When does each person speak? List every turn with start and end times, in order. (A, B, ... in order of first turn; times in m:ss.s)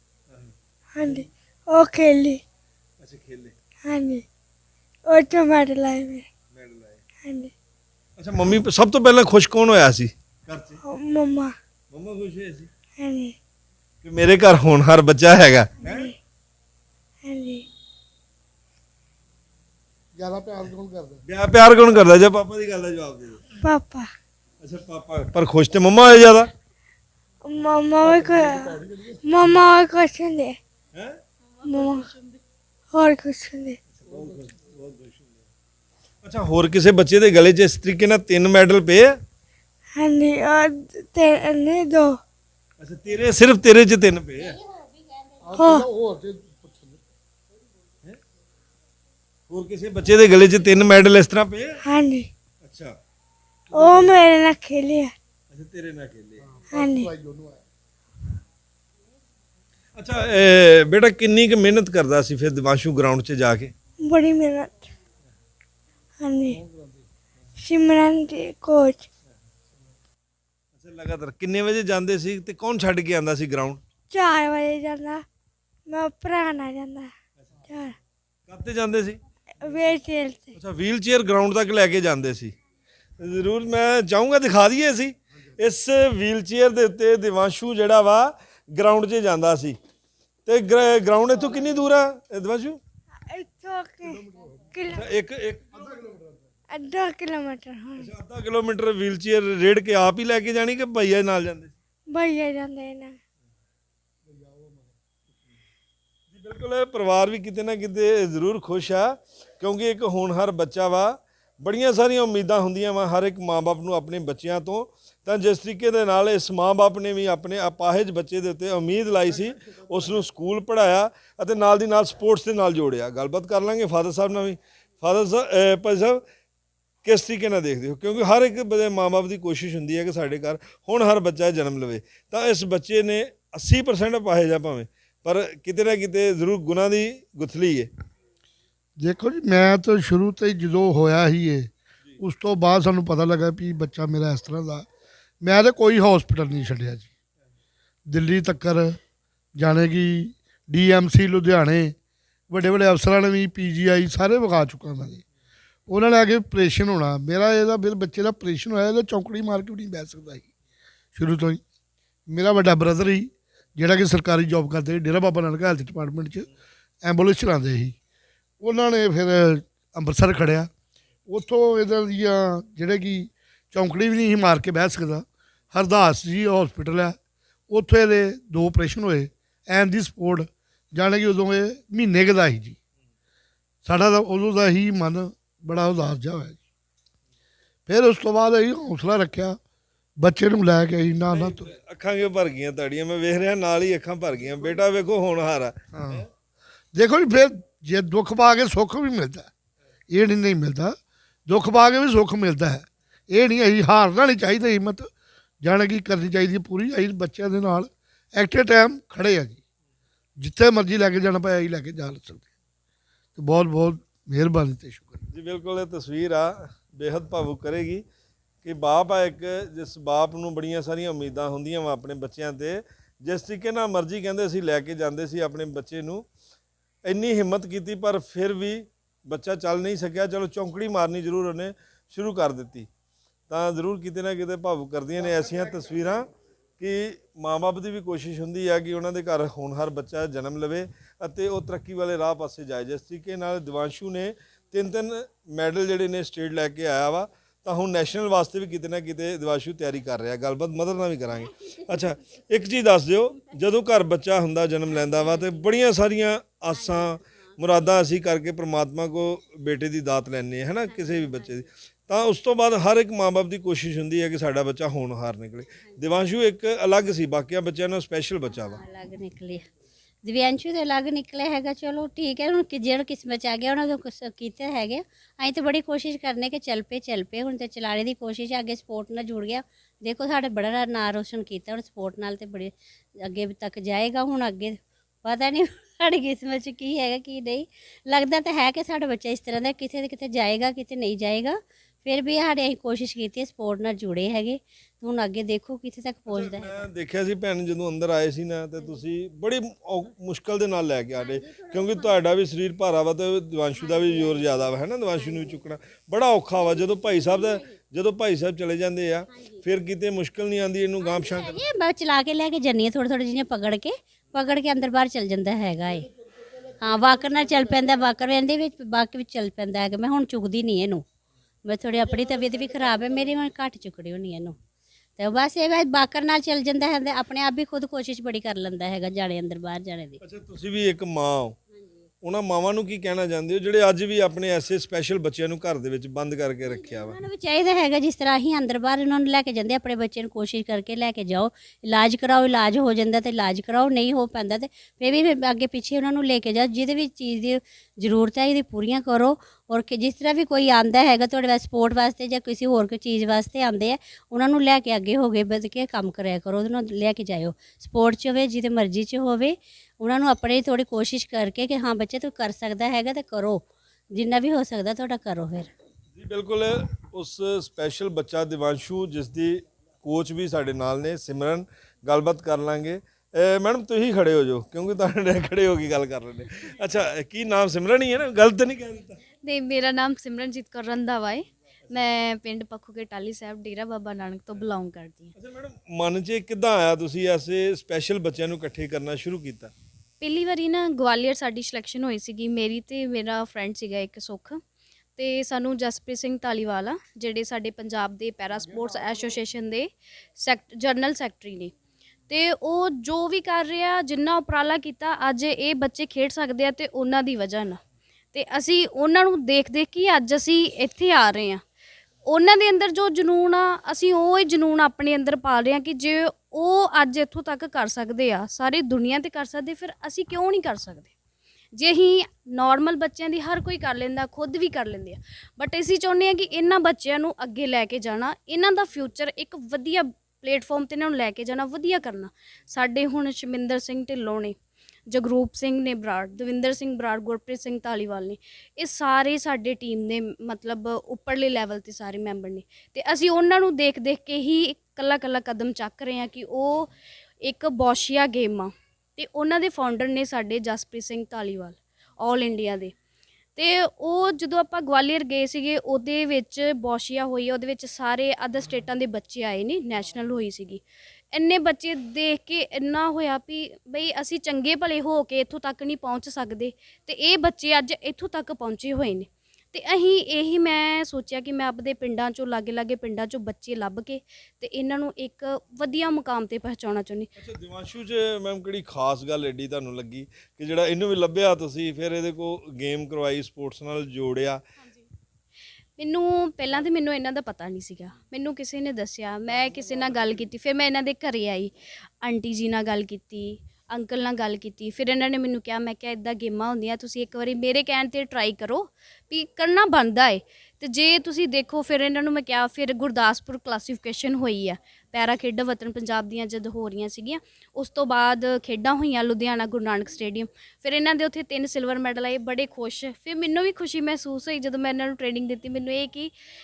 0:01.0-0:02.4 A
0:03.0-0:03.5 B
0:03.8-0:04.2 A
0:05.1-0:06.3 A
0:06.5-0:07.0 B
0:07.2-0:07.5 A
0:08.2-0:10.8 B
0:10.8-0:11.6 A
0:11.9-0:12.7 B
0:13.0-0:13.4 A
0:14.0-0:16.1 B
0:15.8-0:16.2 A
0:17.2-0:17.6 A
0:20.2-0:21.2 C
0:21.3-0:23.4 B
0:23.6-0:24.1 A
0:24.6-0:26.5 B
0:27.4-0:30.6 A
0:28.0-0:29.2 C
0:31.6-0:32.1 A
0:32.9-0:33.8 A
0:33.9-0:35.4 B
0:36.2-0:39.1 B
0:40.0-0:42.2 A
0:42.8-0:44.6 B
0:45.4-0:47.0 C
0:45.6-0:45.9 A
0:49.5-0:51.8 B
0:51.8-0:52.3 A
0:52.6-0:52.9 B
0:53.7-0:55.1 A
0:53.7-0:54.2 B
0:55.5-0:56.4 B
0:56.4-0:57.6 C
0:56.7-0:57.1 A
1:00.0-1:03.7 B
1:04.0-1:04.9 A
1:06.2-1:06.6 A
1:06.6-1:06.9 C
1:07.6-1:09.1 A
1:10.8-1:13.8 B
1:14.1-1:15.2 A
1:15.9-1:17.1 A
1:17.7-1:18.0 A
1:18.5-1:19.2 B
1:19.6-1:20.6 A
1:20.6-1:22.6 B
1:23.2-1:29.8 B
1:30.5-1:32.8 B
1:33.2-1:35.1 A
1:34.1-1:34.7 C
1:34.9-1:35.7 B
1:35.8-1:36.5 C
1:36.7-1:38.1 A
1:38.0-1:41.7 B
1:42.1-1:43.2 A
1:44.3-1:44.9 C
1:46.3-2:06.2 B
2:07.0-2:17.9 B
2:19.0-2:24.8 C
2:25.4-2:27.1 C
2:28.1-2:29.0 C
2:29.6-2:31.9 C
2:32.5-2:35.2 C
2:35.9-2:40.5 C
2:41.2-2:41.6 C
2:42.3-2:46.5 C
2:47.0-2:48.0 C
2:48.6-2:50.7 C
2:51.3-2:57.2 C
2:57.7-3:02.8 C
3:03.8-3:06.6 C
3:07.9-3:09.6 C
3:10.2-3:11.7 C
3:11.3-3:16.3 B
3:15.9-3:16.2 C
3:16.9-3:19.5 C
3:20.1-3:20.9 C
3:21.5-3:25.1 C
3:25.6-3:29.6 C
3:30.4-3:32.4 C
3:33.4-3:35.2 C
3:35.3-3:38.0 B
3:38.6-3:46.2 B
3:47.1-3:52.9 B
3:53.5-3:56.3 B
3:56.8-4:28.8 B
4:28.6-4:29.7 D
4:30.2-4:56.8 D
4:56.3-5:11.6 B
5:11.0-5:16.1 D
5:16.8-5:21.0 D
5:21.6-5:24.6 D
5:25.2-5:30.2 D
5:30.2-5:31.6 B
5:32.2-5:37.2 B
5:36.6-6:05.7 D
6:06.1-6:19.2 B
6:19.4-6:25.3 E
6:25.4-6:29.7 B
6:30.2-6:34.6 E
6:35.2-6:41.7 E
6:42.3-6:47.8 E
6:48.3-6:51.6 E
6:52.3-7:01.1 E
7:01.8-7:14.5 E
7:15.1-7:26.9 E
7:27.4-7:32.9 E
7:33.6-7:57.3 E
7:57.4-8:04.6 B
8:06.0-8:36.3 E